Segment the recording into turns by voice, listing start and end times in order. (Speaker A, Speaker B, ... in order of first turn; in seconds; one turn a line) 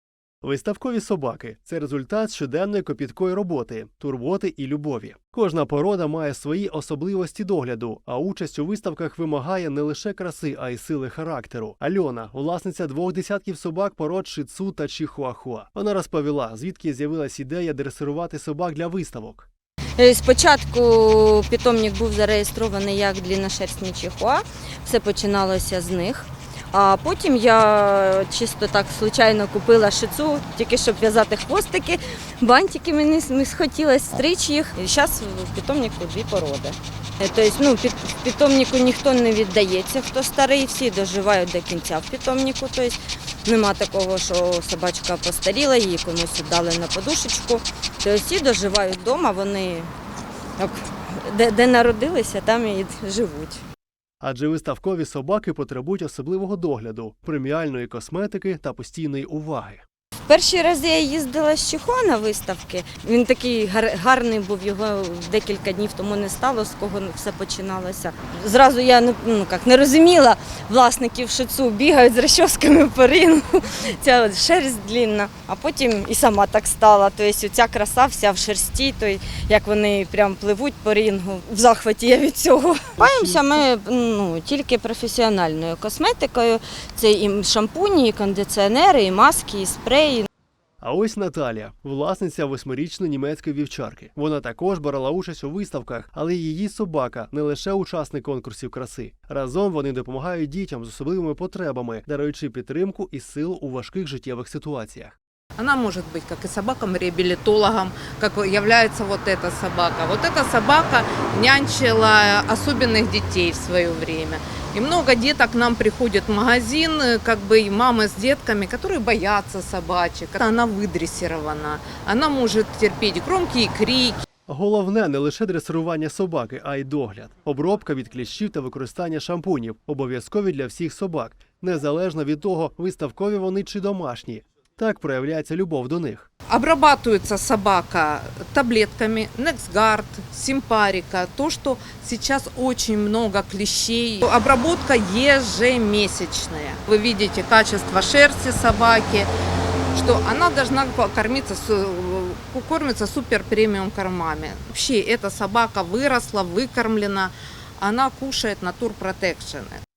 Speaker A: 0.4-19.5
Speaker B: 20.0-49.9
Speaker B: 50.6-53.6
Speaker A: 54.2-59.8
Speaker B: 60.3-90.3
Speaker A: 83.0-83.6
Speaker A: 90.8-105.2
Speaker C: 105.6-124.2
Speaker A: 124.5-136.3
Speaker C: 136.5-149.3
Speaker C: 149.9-159.8